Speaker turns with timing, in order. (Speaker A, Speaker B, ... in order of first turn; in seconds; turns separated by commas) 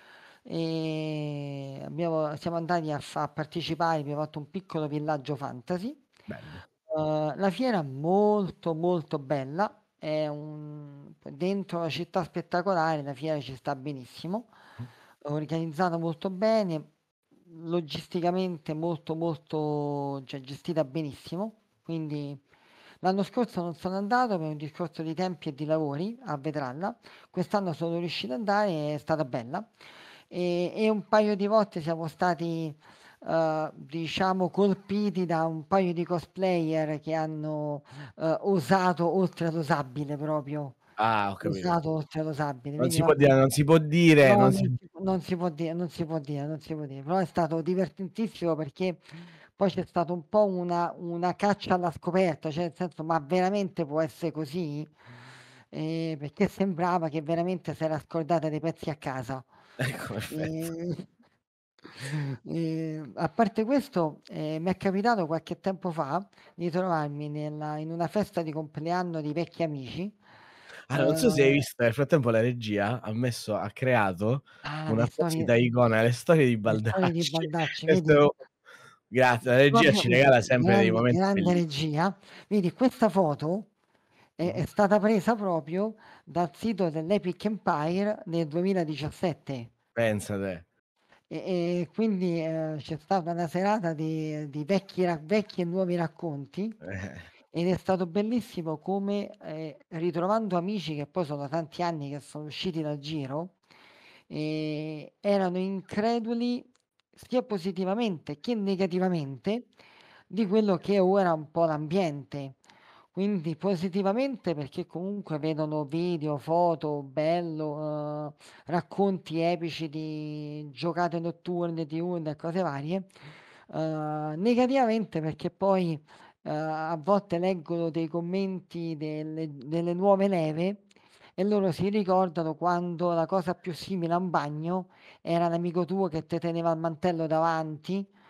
Speaker A: 0.4-6.0, Speaker B: 6.3-6.6, Speaker A: 6.9-14.5, Speaker A: 15.2-16.9, Speaker A: 17.5-22.4, Speaker A: 23.0-29.7, Speaker A: 30.3-40.8, Speaker B: 41.0-41.7, Speaker A: 41.4-43.3, Speaker B: 42.8-44.8, Speaker A: 44.2-49.0, Speaker A: 49.6-54.9, Speaker A: 55.7-59.5, Speaker B: 59.8-60.6, Speaker A: 60.3-61.0, Speaker A: 62.1-70.2, Speaker B: 70.9-78.3, Speaker A: 70.9-71.7, Speaker A: 74.6-75.5, Speaker A: 76.7-78.3, Speaker B: 79.1-81.6, Speaker A: 79.7-83.7, Speaker A: 84.4-89.7, Speaker B: 90.0-90.7, Speaker A: 91.3-96.8, Speaker B: 96.8-97.2, Speaker A: 97.5-103.5, Speaker A: 104.3-109.7, Speaker A: 110.3-112.6, Speaker A: 113.1-123.1, Speaker A: 123.7-130.8, Speaker A: 131.4-138.1